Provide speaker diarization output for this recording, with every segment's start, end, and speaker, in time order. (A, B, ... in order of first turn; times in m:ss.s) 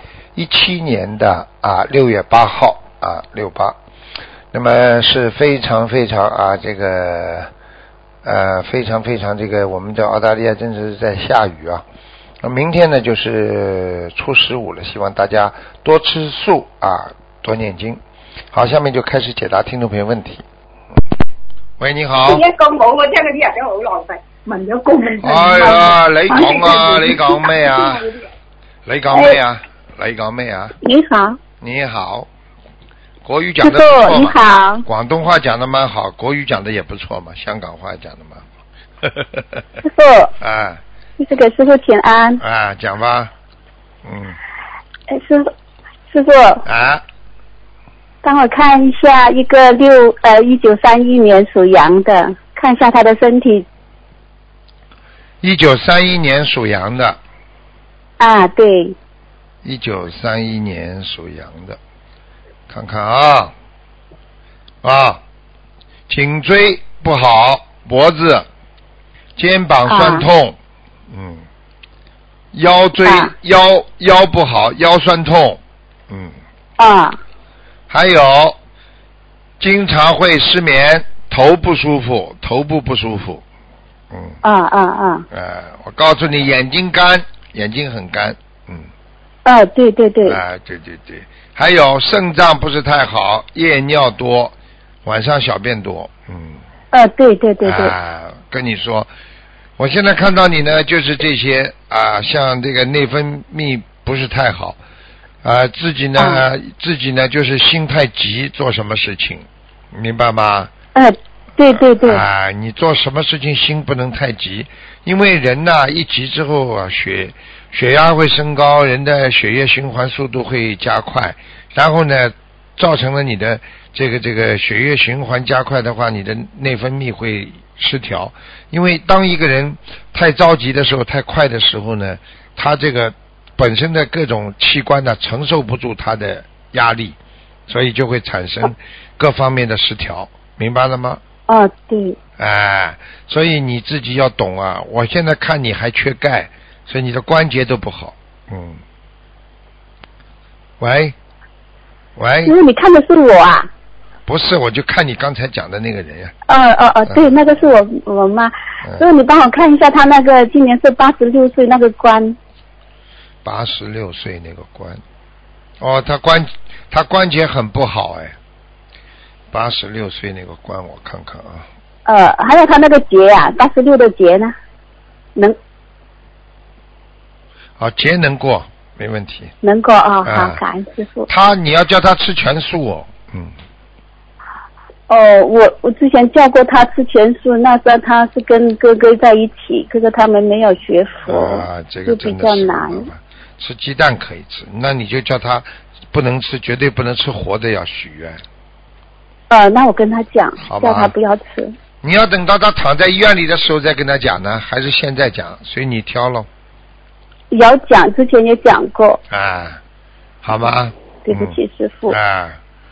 0:00.3-0:03.8 A
0:04.5-0:07.5 A
0:08.2-0:11.8 A
0:12.4-0:18.0 A
0:18.5-0:20.4 A
0:21.8-0:22.4 A
0:22.2-0:28.2 B
0:25.2-0:28.1 A
0:26.3-0:26.6 C
0:28.8-0:30.8 A
0:29.1-0:29.4 C
0:30.8-0:31.4 C
0:31.6-0:32.3 A
0:33.2-0:38.4 A
0:33.6-0:34.8 C
0:39.0-0:39.6 A
0:39.8-0:40.3 C
0:40.4-0:40.8 A
0:41.2-0:42.4 C
0:42.4-0:43.3 A
0:44.0-0:44.4 A
0:45.1-0:45.5 C
0:46.1-0:46.6 C
0:46.6-0:47.0 A
0:48.2-0:53.6 C
0:55.4-0:57.2 A
0:58.2-0:59.0 C
0:59.6-1:01.8 A
1:02.7-1:03.5 A
1:04.8-1:05.2 A
1:06.1-1:08.5 A
1:09.4-1:10.6 A
1:09.9-1:10.3 C
1:11.1-1:11.4 A
1:12.5-1:16.3 A
1:13.0-1:13.3 C
1:16.8-1:17.2 C
1:17.9-1:18.6 A
1:19.6-1:23.4 A
1:24.1-1:24.4 A
1:24.4-1:25.2 C
1:25.3-1:28.9 A
1:29.4-1:30.4 C
1:30.2-1:36.6 A
1:36.9-1:37.9 C
1:37.6-1:39.1 A
1:39.8-1:44.8 A
1:45.4-1:50.7 A
1:46.2-1:46.4 C
1:50.9-1:52.2 C
1:51.7-2:17.2 A
2:17.7-2:21.2 A
2:21.5-2:22.2 C
2:22.4-2:28.8 A
2:30.8-2:31.1 A
2:32.2-2:32.5 A
2:32.4-2:33.7 C
2:34.3-2:36.3 A
2:36.5-2:42.4 C
2:37.1-2:37.3 A
2:43.4-2:45.0 A
2:45.8-2:48.4 A
2:49.5-2:51.6 A
2:52.0-2:54.5 C
2:57.8-2:59.5 A
2:59.6-3:01.3 C
3:00.2-3:00.6 A
3:01.3-3:03.5 A
3:05.1-3:13.1 C
3:11.3-3:18.4 A
3:19.5-3:21.7 C
3:20.6-3:21.1 A
3:22.0-3:26.5 A
3:27.5-3:29.2 C
3:29.3-3:29.8 A
3:30.4-3:31.6 A
3:31.2-3:32.2 C
3:32.1-3:32.6 A